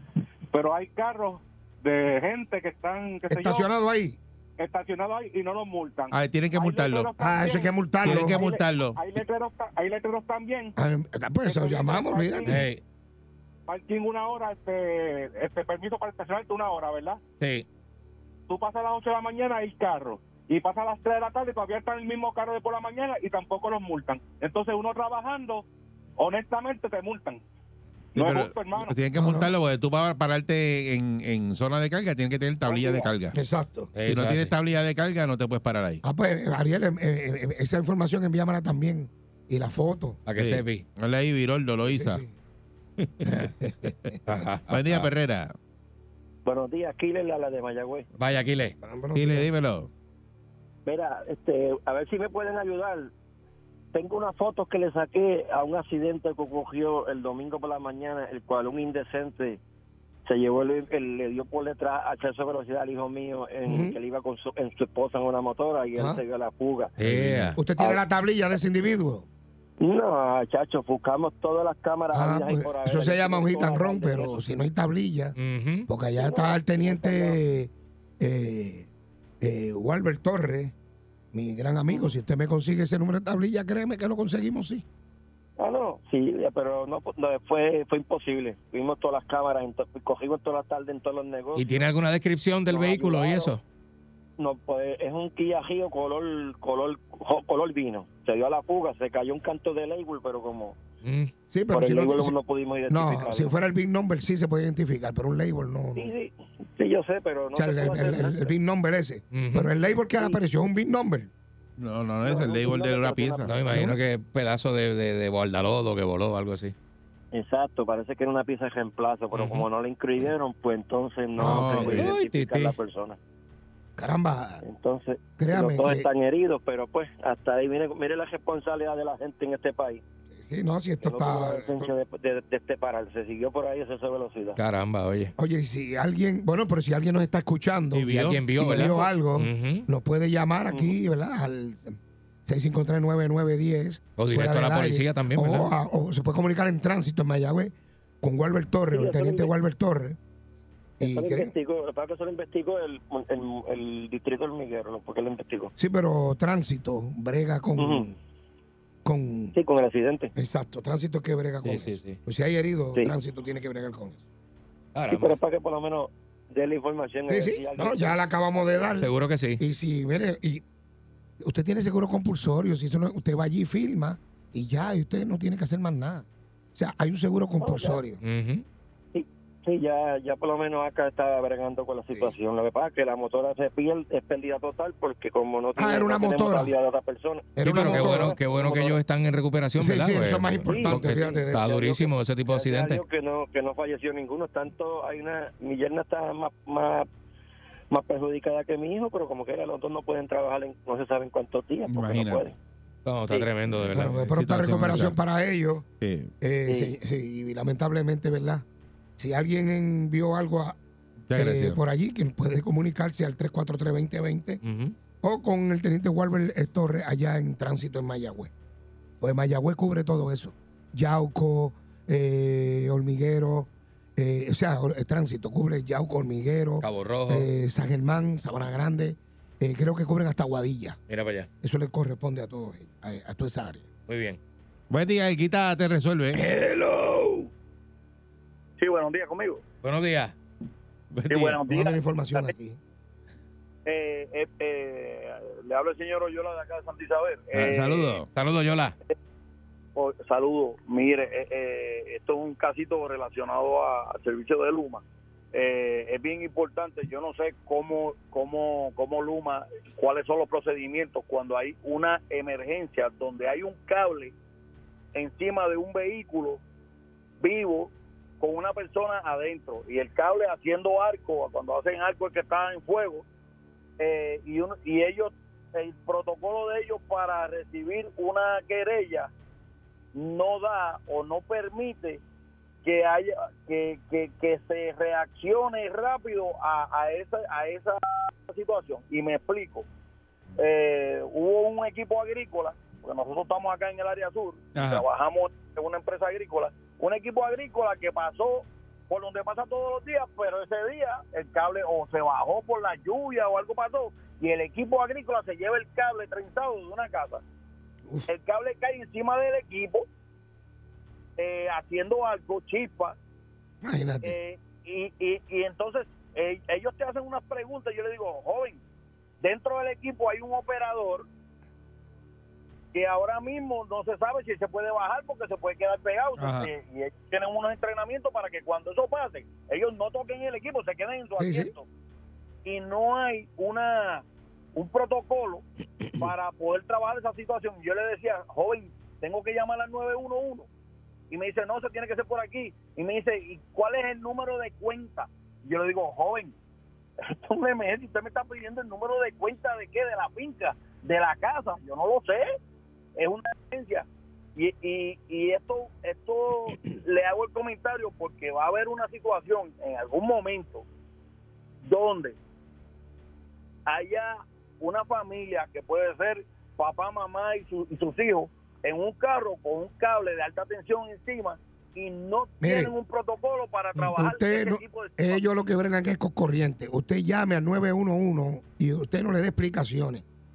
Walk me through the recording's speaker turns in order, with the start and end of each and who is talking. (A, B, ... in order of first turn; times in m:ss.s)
0:00.5-0:03.7 A
0:03.3-0:04.2 B
0:04.6-0:10.7 A
0:06.1-0:07.1 C
0:07.2-0:08.4 B
0:08.0-0:09.0 C
0:10.8-0:12.6 B
0:11.5-0:12.6 A
0:12.4-0:12.8 D
0:13.7-0:17.2 A
0:17.4-0:17.7 D
0:18.5-0:25.7 A
0:26.2-0:27.4 A
0:28.2-0:29.0 A
0:28.2-0:33.4 C
0:29.1-0:29.5 B
0:33.3-0:33.9 B
0:34.0-0:34.5 D
0:34.0-0:36.0 C
0:36.0-0:40.2 B
0:40.3-0:40.8 D
0:40.4-0:42.2 C
0:41.9-0:42.3 B
0:43.0-0:43.5 D
0:43.6-0:43.9 B
0:44.2-0:45.1 D
0:44.7-0:45.5 C
0:46.4-0:48.1 E
0:48.2-0:48.8 D
0:48.8-0:49.5 B
0:49.2-0:49.9 C
0:50.8-0:53.1 E
0:53.9-0:59.6 E
1:00.2-1:07.0 E
1:03.7-1:04.0 B
1:06.0-1:06.2 B
1:07.0-1:07.6 D
1:07.2-1:07.5 C
1:07.6-1:09.3 B
1:07.8-1:08.0 E
1:09.8-1:14.4 E
1:12.1-1:15.4 B
1:15.4-1:15.9 D
1:15.9-1:18.9 B
1:16.2-1:17.4 E
1:19.4-1:20.7 B
1:21.3-1:24.8 B
1:21.9-1:22.2 E
1:25.6-1:31.9 E
1:31.6-1:33.6 D
1:32.7-1:33.5 E
1:34.4-1:40.8 E
1:41.0-1:41.3 D
1:41.5-1:42.4 B
1:41.7-1:43.6 E
1:42.9-1:46.1 B
1:46.0-1:48.6 E
1:47.6-1:51.3 B
1:49.3-1:49.7 D
1:50.2-1:50.4 E
1:51.8-1:54.0 C
1:52.2-1:53.5 E
1:53.5-1:56.7 D
1:57.3-2:03.2 E
1:59.3-1:59.6 D
2:01.4-2:02.1 B
2:01.4-2:02.1 C
2:01.9-2:02.8 D
2:04.0-2:04.6 B
2:04.6-2:10.0 E
2:05.4-2:06.1 B
2:10.3-2:11.9 B
2:11.0-2:14.6 E
2:14.6-2:15.3 D
2:15.4-2:22.0 B
2:17.9-2:18.5 C
2:18.1-2:19.9 D
2:20.7-2:21.0 E
2:22.5-2:30.2 B
2:24.2-2:25.7 D
2:28.9-2:29.6 E
2:31.0-2:31.5 B
2:31.0-2:35.7 E
2:35.8-2:38.2 B
2:37.8-2:38.1 E
2:39.0-2:39.6 B
2:39.6-2:40.3 E
2:40.4-2:44.2 B
2:41.6-2:42.2 D
2:45.0-2:45.4 D
2:45.1-2:48.9 E
2:47.3-2:50.6 B
2:49.0-2:49.6 D
2:51.4-2:58.2 B
2:57.6-2:58.1 E
2:58.2-2:58.6 D
2:59.1-3:09.0 E
3:05.8-3:06.7 B
3:07.6-3:08.4 B
3:07.6-3:13.0 D
3:09.8-3:11.7 B
3:10.7-3:17.1 E
3:17.9-3:22.6 E
3:21.9-3:22.5 C
3:23.0-3:24.4 D
3:23.8-3:25.2 C
3:23.9-3:25.9 B
3:26.0-3:26.3 C
3:26.4-3:28.6 B
3:26.7-3:27.0 E
3:29.2-3:30.8 B
3:31.3-3:31.8 C
3:31.4-3:34.6 B
3:34.6-3:35.0 D
3:35.2-3:38.5 B
3:39.2-3:51.0 B
3:46.8-3:47.5 D
3:51.1-3:51.5 D
3:51.6-3:53.9 B
3:54.1-3:54.4 D
3:54.9-3:56.4 C
3:56.5-3:57.3 B
3:58.8-3:59.6 F
3:59.8-4:00.4 D
4:01.1-4:01.6 C
4:01.3-4:02.5 F
4:01.6-4:02.8 B
4:03.9-4:08.2 F
4:07.5-4:08.3 C
4:08.3-4:09.0 D
4:10.0-4:15.0 F
4:15.5-4:24.3 F
4:25.2-4:26.6 F
4:27.4-4:33.3 F
4:34.0-4:39.3 F
4:40.2-4:42.2 F
4:42.8-4:49.9 F
4:50.6-5:07.4 F
4:54.8-4:55.1 C
5:08.3-5:10.1 F
5:11.4-5:13.2 F
5:13.8-5:14.4 B
5:14.2-5:18.8 F
5:19.4-5:21.3 F
5:22.9-5:31.9 F
5:31.4-5:31.7 B
5:32.6-5:35.6 F
5:36.2-5:40.7 F
5:41.3-5:46.5 F
5:47.3-5:52.5 F
5:53.2-6:00.9 F
6:01.8-6:02.4 F
6:03.9-6:15.4 F
6:12.6-6:12.9 B
6:14.1-6:20.2 B